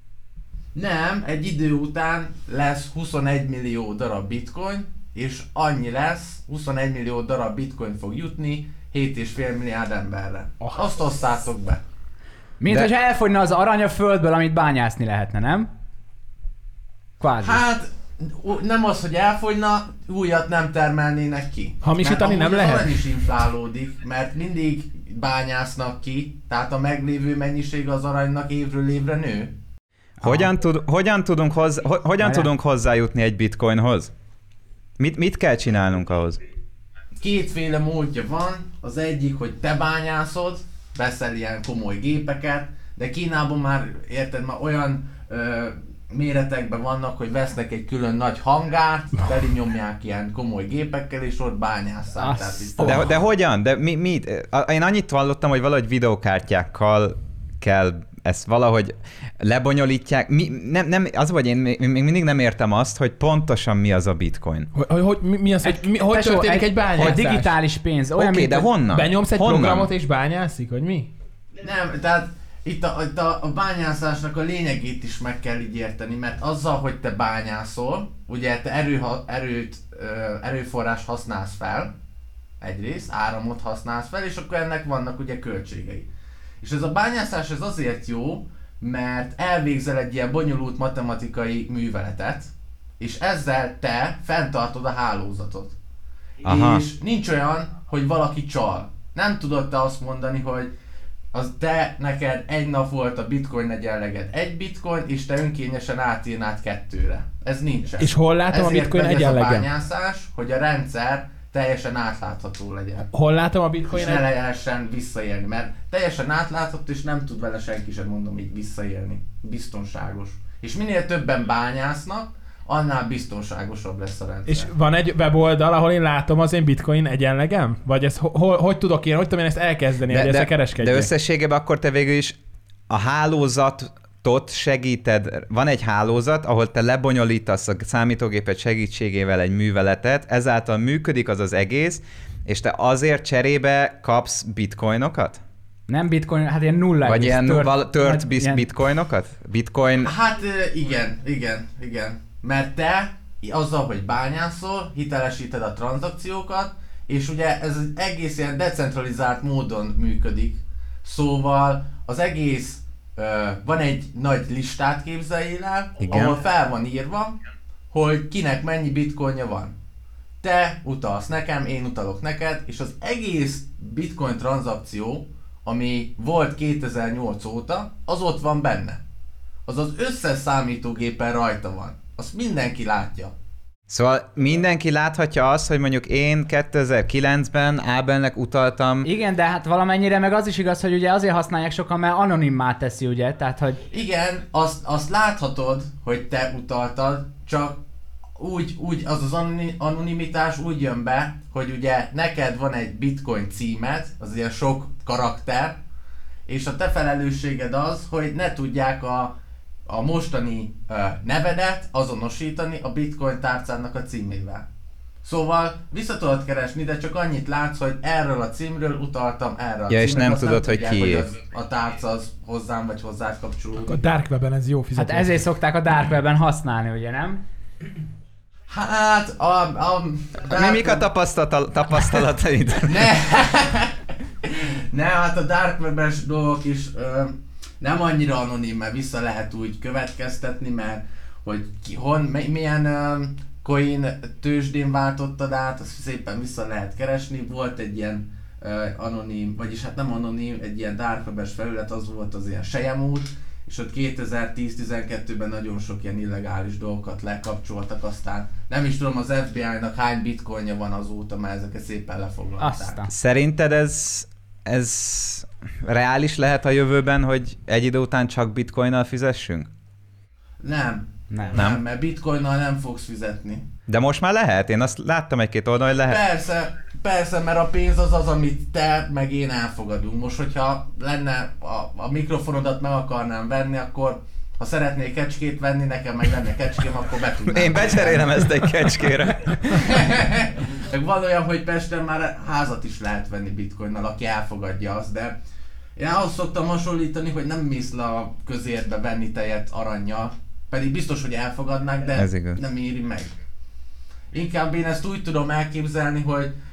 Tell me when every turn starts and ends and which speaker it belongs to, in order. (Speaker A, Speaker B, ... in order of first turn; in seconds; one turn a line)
Speaker A: 0.8-11.8
Speaker B: 12.6-15.7
Speaker B: 17.2-17.6
Speaker A: 17.4-29.5
Speaker C: 21.8-23.0
Speaker B: 30.2-30.5
Speaker D: 30.2-34.1
Speaker B: 32.2-32.5
Speaker D: 35.0-36.4
Speaker A: 37.2-53.0
Speaker B: 52.2-53.0
Speaker D: 52.8-64.7
Speaker C: 64.7-67.6
Speaker B: 65.6-68.7
Speaker D: 68.2-69.9
Speaker C: 68.9-71.1
Speaker A: 71.6-81.9
Speaker A: 82.6-86.1
Speaker A: 86.6-95.8
Speaker D: 96.4-96.8
Speaker A: 96.4-100.7
Speaker A: 101.3-113.1
Speaker C: 108.0-109.7
Speaker C: 113.1-114.3
Speaker A: 113.9-124.7
Speaker C: 124.5-131.1
Speaker D: 130.1-132.4
Speaker D: 132.9-145.4
Speaker B: 145.9-148.7
Speaker D: 147.1-150.1
Speaker A: 150.0-167.4
Speaker D: 166.0-166.4
Speaker A: 167.9-169.8
Speaker A: 170.4-179.0
Speaker A: 179.7-183.3
Speaker D: 183.9-189.1
Speaker B: 189.0-193.8
Speaker A: 193.9-197.8
Speaker A: 198.4-205.8
Speaker A: 206.5-209.3
Speaker A: 209.9-214.7
Speaker A: 215.2-224.0
Speaker D: 219.9-221.3
Speaker C: 223.9-225.4
Speaker B: 224.9-227.4
Speaker A: 228.7-231.1
Speaker D: 230.5-233.1
Speaker A: 232.9-263.0
Speaker B: 262.6-263.1
Speaker D: 263.1-269.7
Speaker A: 270.6-273.7
Speaker B: 271.3-271.6
Speaker D: 271.6-271.8
Speaker D: 273.9-276.2
Speaker A: 276.0-288.8
Speaker D: 287.4-290.0
Speaker A: 289.7-295.4
Speaker A: 296.0-303.3
Speaker D: 302.2-302.6
Speaker A: 304.3-306.5